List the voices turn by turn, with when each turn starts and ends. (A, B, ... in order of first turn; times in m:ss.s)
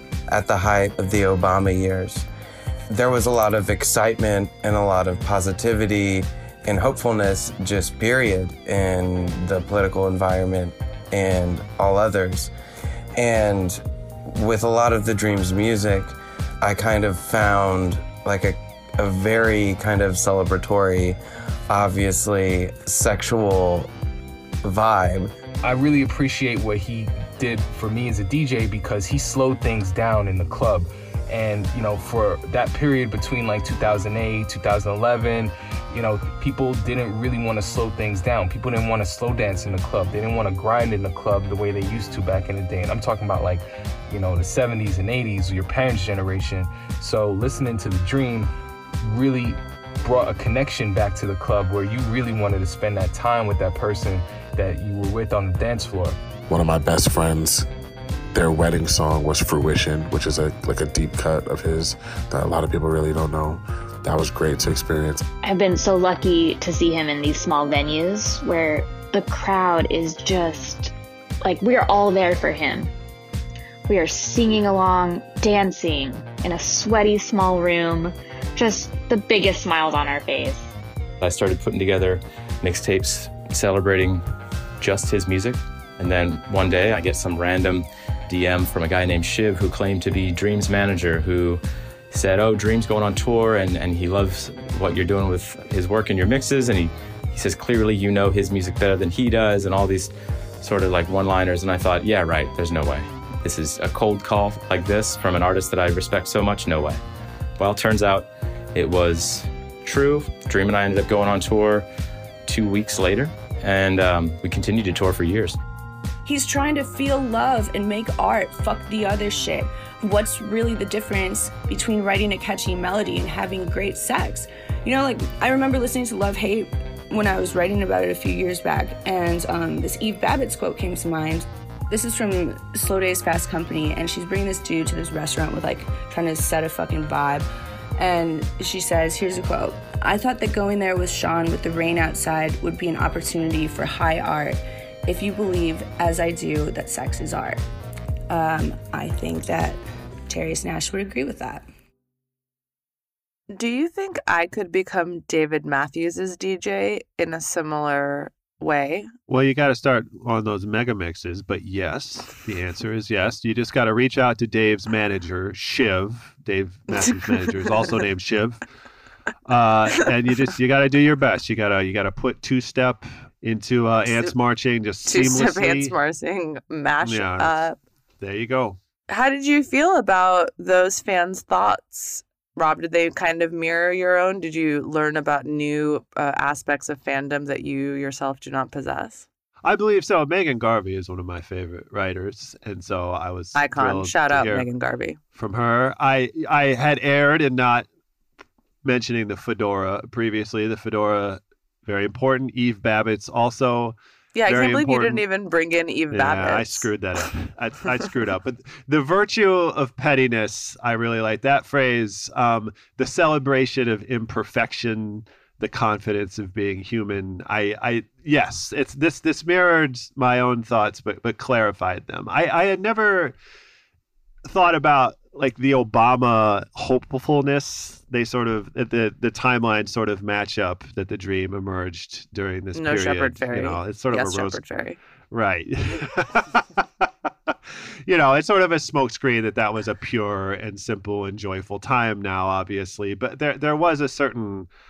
0:00.3-0:02.2 A
0:02.9-0:12.5 A
0:13.2-0:13.8 A
0:14.3-0:21.2 A
0:21.7-0:23.9 A
0:24.6-0:25.3 A
0:25.6-0:48.5 B
0:49.0-0:56.2 B
0:56.5-0:57.7 C
0:58.3-1:05.2 C
1:05.4-1:10.9 D
1:11.4-1:12.9 D
1:13.9-1:20.7 D
1:21.2-1:24.2 E
1:24.8-1:40.1 E
1:40.6-1:47.0 E
1:47.6-1:51.9 E
1:52.5-1:55.6 E
1:56.3-2:17.5 F
2:18.0-2:27.6 F
2:28.3-2:31.7 F
2:33.5-2:39.1 G
2:39.3-2:48.6 H
2:49.5-2:56.0 H
2:55.1-2:57.8 G
2:57.0-2:57.6 H
2:58.2-2:58.8 H
2:59.1-3:09.3 G
3:09.6-3:14.7 H
3:13.6-3:15.2 G
3:15.4-3:17.9 H
3:18.8-3:25.2 H
3:24.4-3:26.9 G
3:26.1-3:43.4 H
3:44.4-3:54.6 H
3:52.7-3:55.0 G
3:55.3-4:04.7 H